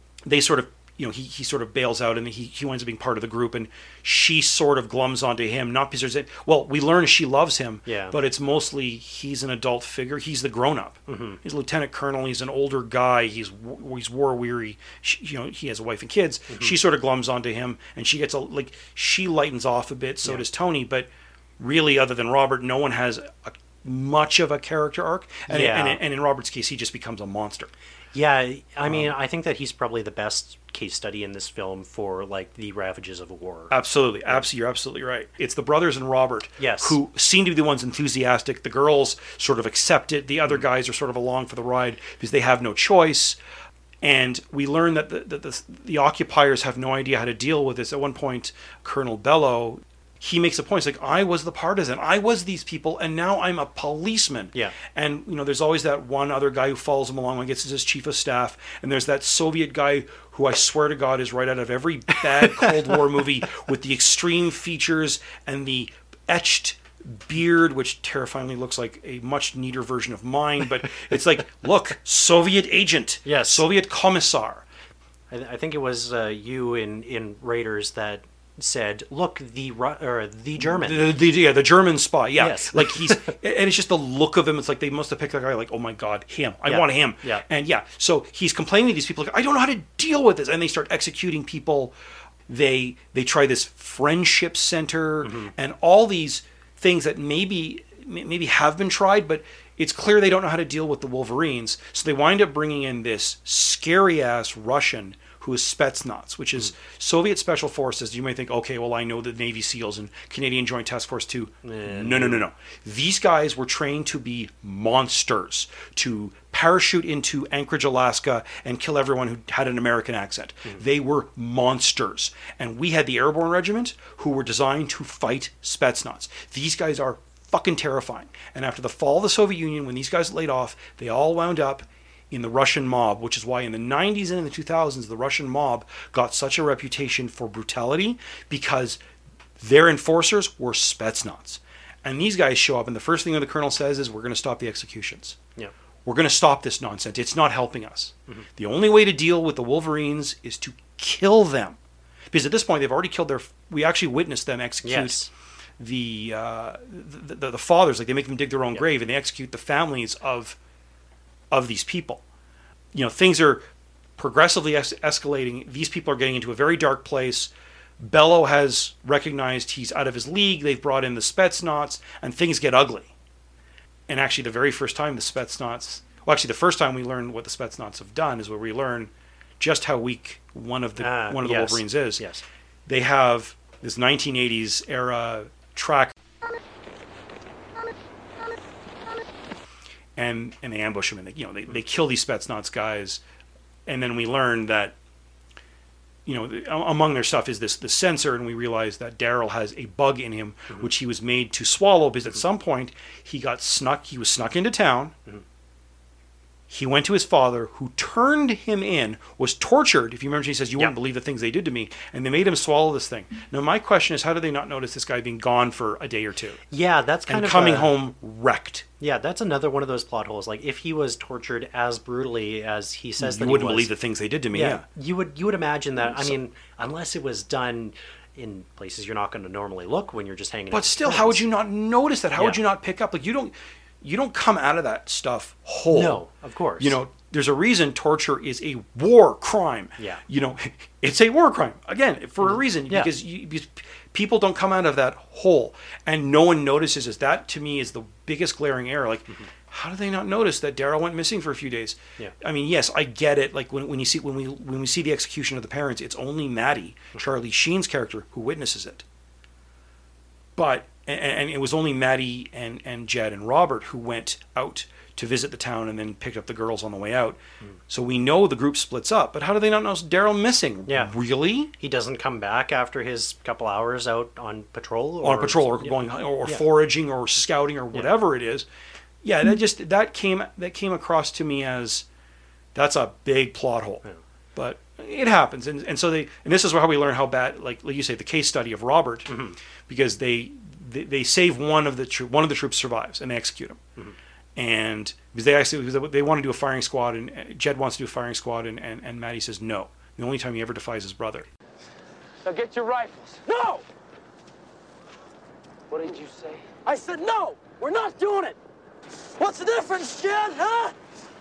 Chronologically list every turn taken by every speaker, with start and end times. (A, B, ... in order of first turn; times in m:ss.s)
0:00.2-0:27.7 A
0:07.8-0:08.2 B
0:11.1-0:11.4 B
0:16.5-0:16.8 B
0:25.5-0:26.0 B
0:28.1-0:33.7 B
0:28.8-0:29.1 A
0:33.7-0:43.4 A
0:36.6-0:37.0 B
0:44.0-1:14.6 A
1:13.2-1:13.6 B
1:15.3-1:21.2 B
1:20.6-1:31.9 A
1:22.4-1:23.4 B
1:26.6-1:27.4 B
1:32.5-2:19.0 A
1:35.2-1:35.5 B
1:51.6-1:52.4 B
2:19.6-2:25.4 A
2:26.0-2:31.8 A
2:32.3-2:35.3 A
2:34.8-2:35.3 B
2:35.8-2:40.6 A
2:41.5-2:42.2 A
2:42.9-2:43.6 A
2:44.2-2:53.1 A
2:54.1-3:02.2 A
3:01.0-3:02.4 B
3:02.8-3:06.1 A
3:10.2-3:13.2 A
3:13.8-3:14.9 A
3:16.2-3:25.1 A
3:26.7-3:36.6 A
3:36.7-3:37.9 B
3:37.3-3:38.8 A
3:39.0-3:43.9 B
3:43.2-3:44.8 A
3:44.5-3:51.4 B
3:46.0-3:46.4 A
3:50.7-3:56.2 A
3:55.9-3:57.0 B
3:56.8-4:19.0 A
4:02.4-4:03.1 B
4:20.6-4:31.7 A
4:30.9-4:31.1 B
4:31.8-4:36.6 B
4:35.2-4:38.7 A
4:39.2-4:42.0 A
4:42.7-4:49.3 A
4:49.3-4:49.6 B
4:49.9-4:53.8 A
4:54.6-5:01.5 A
5:02.4-5:03.8 C
5:05.9-5:08.6 C
5:09.4-5:10.9 C